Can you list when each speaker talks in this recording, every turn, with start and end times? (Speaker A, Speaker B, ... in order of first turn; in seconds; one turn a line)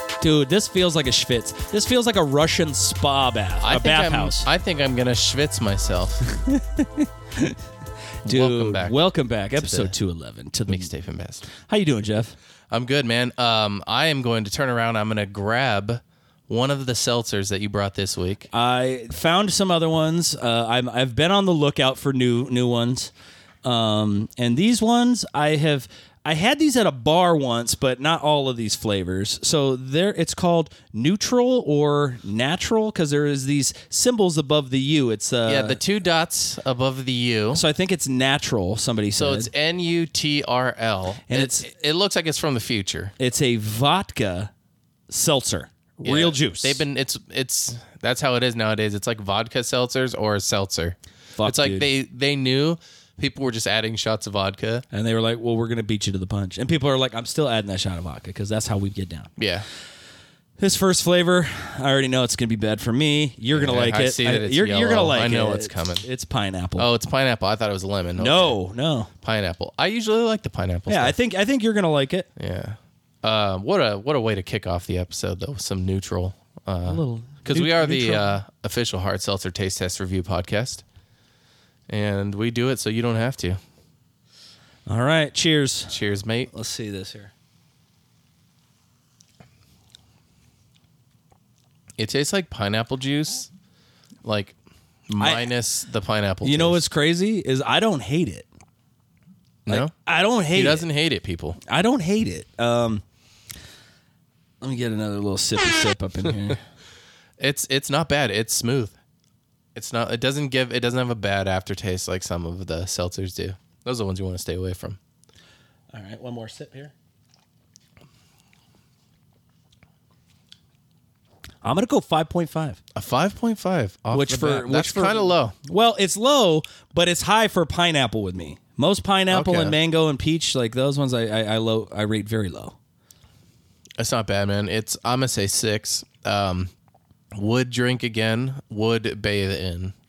Speaker A: 0.2-4.5
Speaker B: 3.6-6.2
Speaker A: 6.3-7.6
Speaker B: 8.2-9.0
Speaker A: 8.2-10.9
Speaker B: 9.6-9.9
Speaker B: 10.7-11.5
Speaker A: 11.5-12.3
Speaker B: 12.7-18.5
Speaker A: 18.5-23.1
Speaker A: 23.6-35.8
Speaker B: 35.5-37.6
Speaker A: 37.5-39.5
Speaker B: 39.1-43.1
Speaker A: 41.3-41.7
Speaker A: 43.2-44.5
Speaker A: 45.1-46.8
Speaker B: 46.0-54.8
Speaker A: 51.4-51.9
Speaker A: 54.9-59.3
Speaker B: 59.4-59.6
Speaker A: 60.6-66.9
Speaker B: 63.5-66.0
Speaker B: 66.8-68.5
Speaker A: 68.2-69.1
Speaker B: 69.2-71.2
Speaker A: 70.9-72.3
Speaker B: 72.3-80.8
Speaker A: 76.8-78.4
Speaker B: 81.9-83.6
Speaker A: 84.9-86.0
Speaker B: 85.9-86.5
Speaker A: 86.5-87.3
Speaker B: 92.0-93.5
Speaker B: 94.2-94.5
Speaker B: 95.1-96.8
Speaker A: 95.2-95.5
Speaker A: 96.4-98.5
Speaker B: 99.7-99.9
Speaker A: 99.7-100.8
Speaker B: 100.5-101.6
Speaker A: 101.7-103.0
Speaker A: 104.6-106.6
Speaker B: 107.4-108.9
Speaker B: 109.7-115.0
Speaker A: 115.9-116.9
Speaker A: 121.6-122.8
Speaker B: 122.9-125.5
Speaker A: 124.1-132.7
Speaker B: 129.3-129.8
Speaker B: 134.0-136.7
Speaker B: 137.3-139.9